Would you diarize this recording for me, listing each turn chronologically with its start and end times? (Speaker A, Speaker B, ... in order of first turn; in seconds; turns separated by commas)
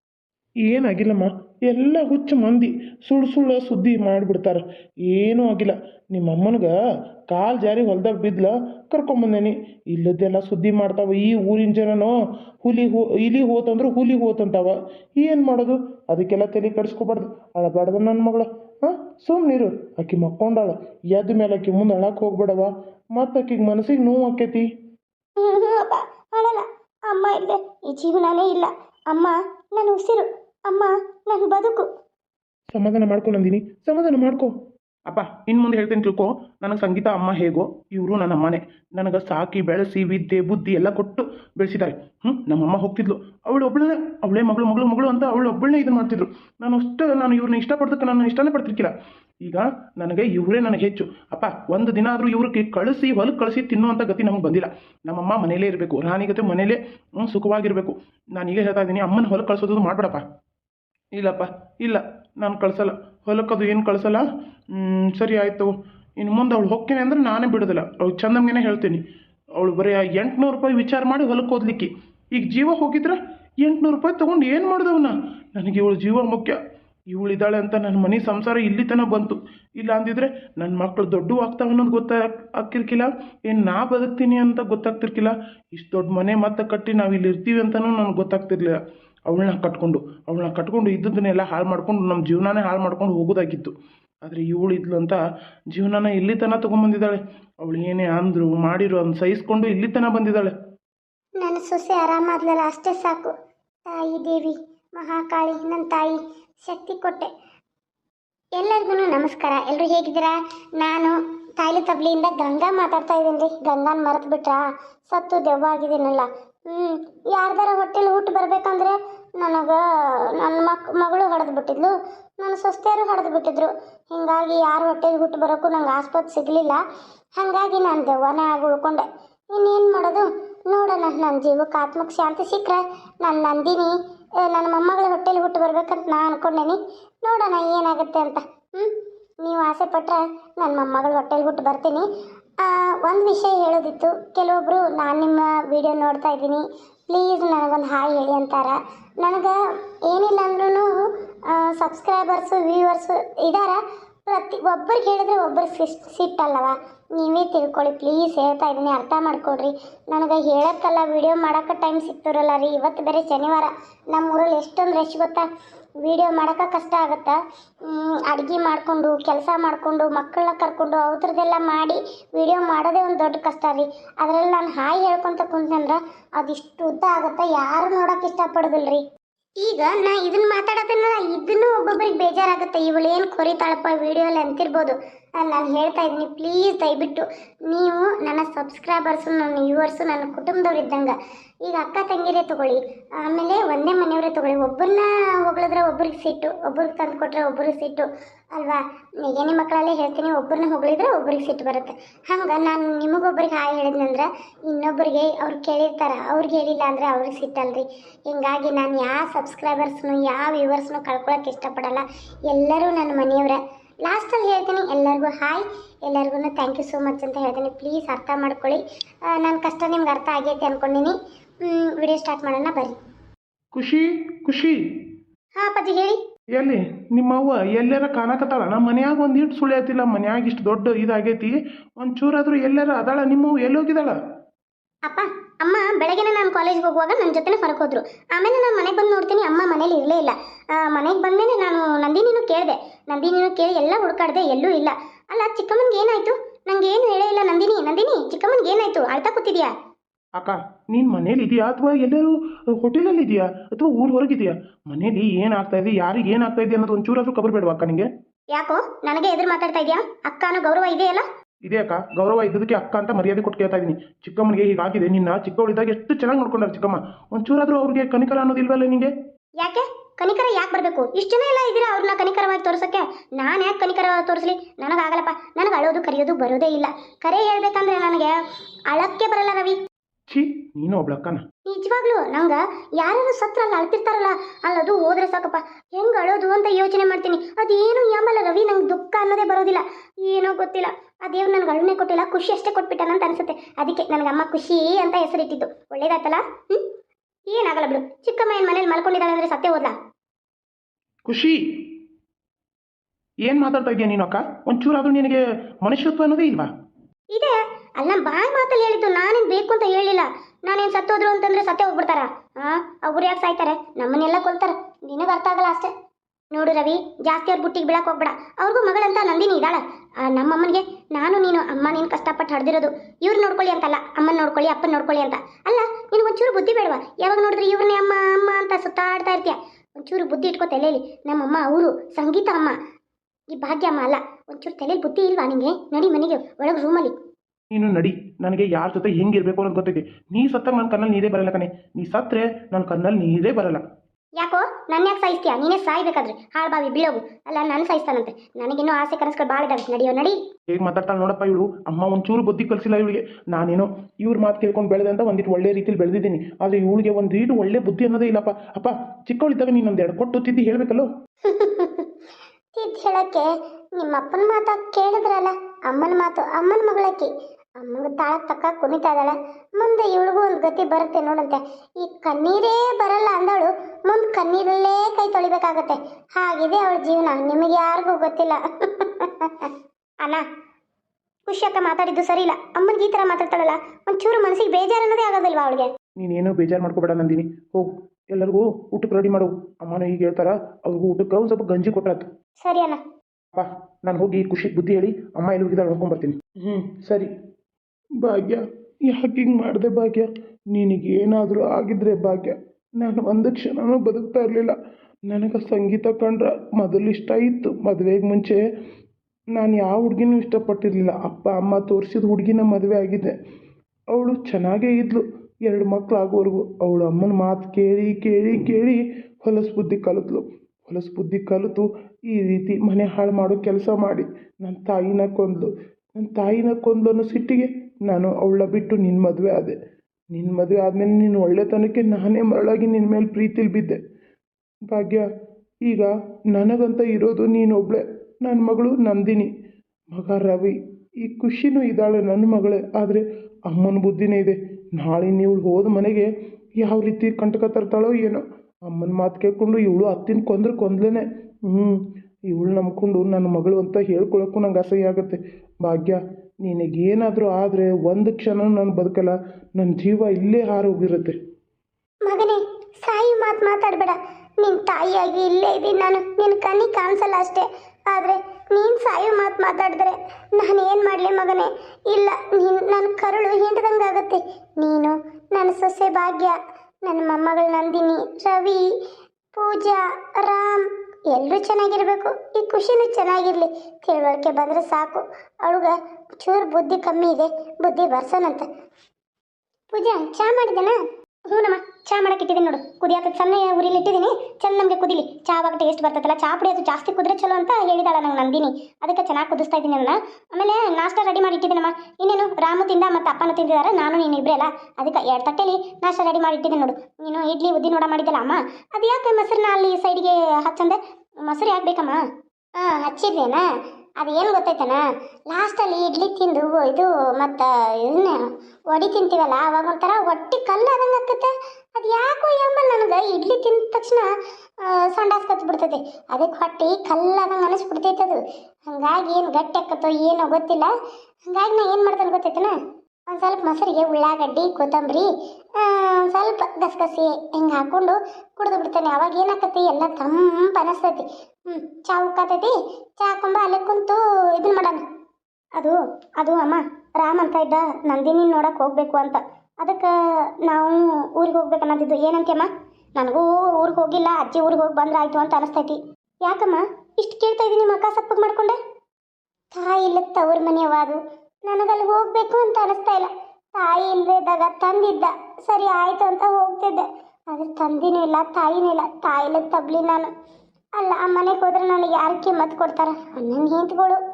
Speaker A: 0.7-6.7, Speaker A: 7.3-24.7, Speaker B: 25.4-31.9, Speaker A: 32.7-34.5, Speaker A: 35.1-48.9, Speaker A: 49.5-60.2, Speaker A: 61.2-69.0, Speaker A: 69.6-76.6, Speaker A: 77.1-88.8, Speaker A: 89.3-93.7, Speaker A: 94.2-95.2, Speaker A: 95.7-100.5, Speaker B: 101.4-103.3, Speaker B: 103.9-107.3, Speaker B: 108.6-126.8, Speaker B: 127.4-142.1, Speaker B: 142.6-149.6, Speaker B: 150.1-165.4, Speaker B: 166.0-179.0, Speaker B: 179.6-191.1, Speaker B: 191.7-223.0, Speaker A: 223.7-224.8, Speaker B: 225.6-226.2, Speaker A: 226.5-234.2, Speaker B: 235.1-249.7, Speaker A: 250.4-258.1, Speaker B: 258.5-261.3, Speaker A: 261.7-269.1, Speaker B: 269.6-278.4, Speaker B: 278.9-279.8, Speaker A: 280.3-281.4, Speaker B: 281.7-296.8, Speaker B: 297.5-299.9, Speaker A: 301.3-301.6, Speaker A: 303.5-306.7, Speaker B: 307.3-315.9, Speaker B: 316.5-332.7, Speaker B: 333.5-337.1, Speaker A: 337.7-343.8, Speaker B: 344.4-350.4, Speaker A: 350.7-361.1, Speaker B: 361.4-362.1, Speaker B: 362.8-380.4, Speaker B: 381.5-385.9, Speaker A: 386.2-392.3, Speaker B: 392.6-393.0, Speaker A: 393.6-397.3, Speaker A: 398.2-404.8, Speaker A: 405.3-408.6, Speaker A: 409.6-413.3, Speaker A: 414.1-429.8, Speaker A: 430.3-434.0, Speaker A: 434.9-435.3, Speaker A: 435.9-439.5, Speaker A: 440.1-461.3, Speaker B: 462.3-478.8, Speaker B: 479.6-488.7, Speaker B: 489.9-491.0, Speaker B: 491.5-512.2, Speaker B: 512.8-513.7, Speaker B: 514.2-518.4, Speaker B: 518.9-524.3, Speaker B: 524.8-530.9, Speaker B: 531.5-532.8, Speaker B: 533.3-545.0, Speaker B: 545.8-558.8, Speaker B: 559.7-570.3, Speaker B: 571.0-574.2